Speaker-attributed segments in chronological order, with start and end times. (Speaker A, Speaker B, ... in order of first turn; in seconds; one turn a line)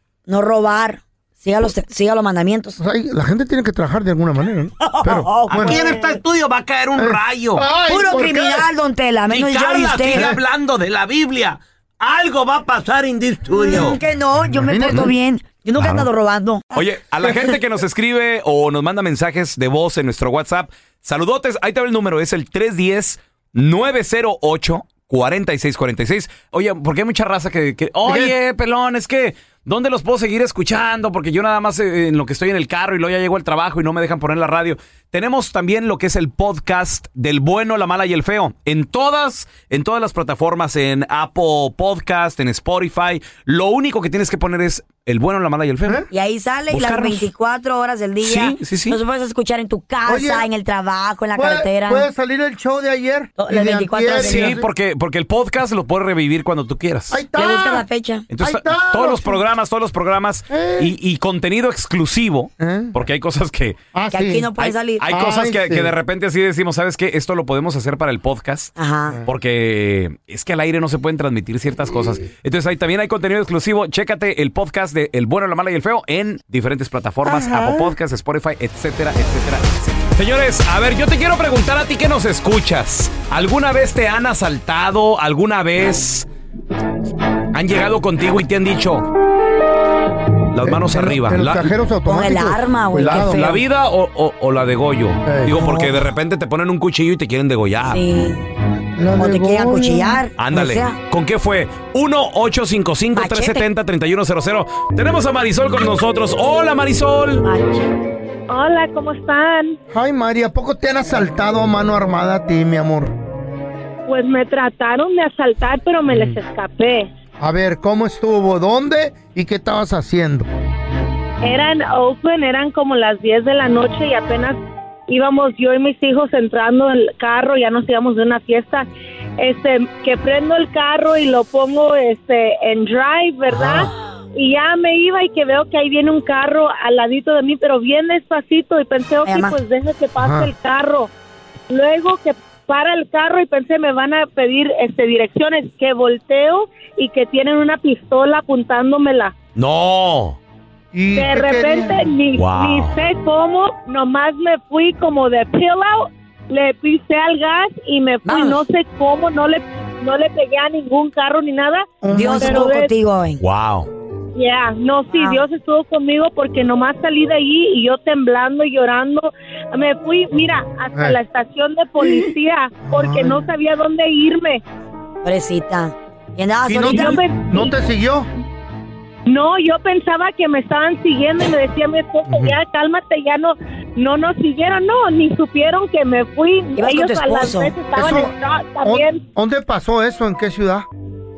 Speaker A: 0.3-2.8
Speaker B: 2.8-5.8
Speaker A: 4.8-6.2
Speaker C: 5.5-7.6
Speaker B: 7.0-8.7
Speaker A: 7.8-10.3
Speaker C: 9.3-14.0
Speaker B: 10.1-10.4
Speaker A: 13.5-17.6
Speaker B: 14.5-15.1
Speaker D: 15.8-16.1
Speaker D: 16.7-46.0
Speaker B: 28.1-28.3
Speaker A: 46.1-52.1
Speaker D: 46.7-47.3
Speaker D: 48.2-49.0
Speaker B: 50.1-50.5
Speaker B: 51.4-54.6
Speaker A: 53.4-54.6
Speaker D: 54.2-57.2
Speaker B: 57.1-57.9
Speaker A: 57.3-58.3
Speaker D: 58.3-63.8
Speaker B: 58.4-59.4
Speaker B: 60.5-60.9
Speaker B: 62.6-62.9
Speaker B: 63.9-64.5
Speaker A: 64.1-65.1
Speaker D: 64.6-68.7
Speaker B: 65.1-65.9
Speaker A: 68.8-69.2
Speaker D: 69.3-86.3
Speaker B: 77.3-77.8
Speaker D: 87.5-89.1
Speaker D: 90.5-91.7
Speaker B: 90.6-93.6
Speaker A: 92.1-93.6
Speaker D: 93.0-98.0
Speaker B: 95.2-96.0
Speaker A: 97.9-98.4
Speaker B: 99.0-100.2
Speaker A: 99.2-101.0
Speaker D: 100.4-107.5
Speaker A: 103.1-103.7
Speaker A: 107.4-107.9
Speaker E: 108.5-109.8
Speaker B: 109.9-113.1
Speaker E: 114.1-117.1
Speaker B: 116.1-116.4
Speaker B: 117.4-120.5
Speaker E: 121.4-128.9
Speaker E: 129.4-141.1
Speaker B: 133.6-133.8
Speaker A: 139.2-139.6
Speaker B: 140.2-140.5
Speaker E: 141.7-149.3
Speaker D: 149.6-150.4
Speaker B: 150.9-152.1
Speaker E: 151.2-162.9
Speaker D: 152.3-153.0
Speaker A: 158.2-158.6
Speaker B: 162.0-162.7
Speaker A: 162.1-163.4
Speaker D: 163.4-163.9
Speaker E: 164.4-174.6
Speaker A: 165.1-165.4
Speaker B: 172.0-172.3
Speaker B: 172.8-173.5
Speaker A: 175.2-177.2
Speaker B: 176.7-178.3
Speaker E: 176.8-177.7
Speaker E: 179.3-189.2
Speaker B: 182.3-182.6
Speaker A: 186.8-187.9
Speaker B: 187.9-190.9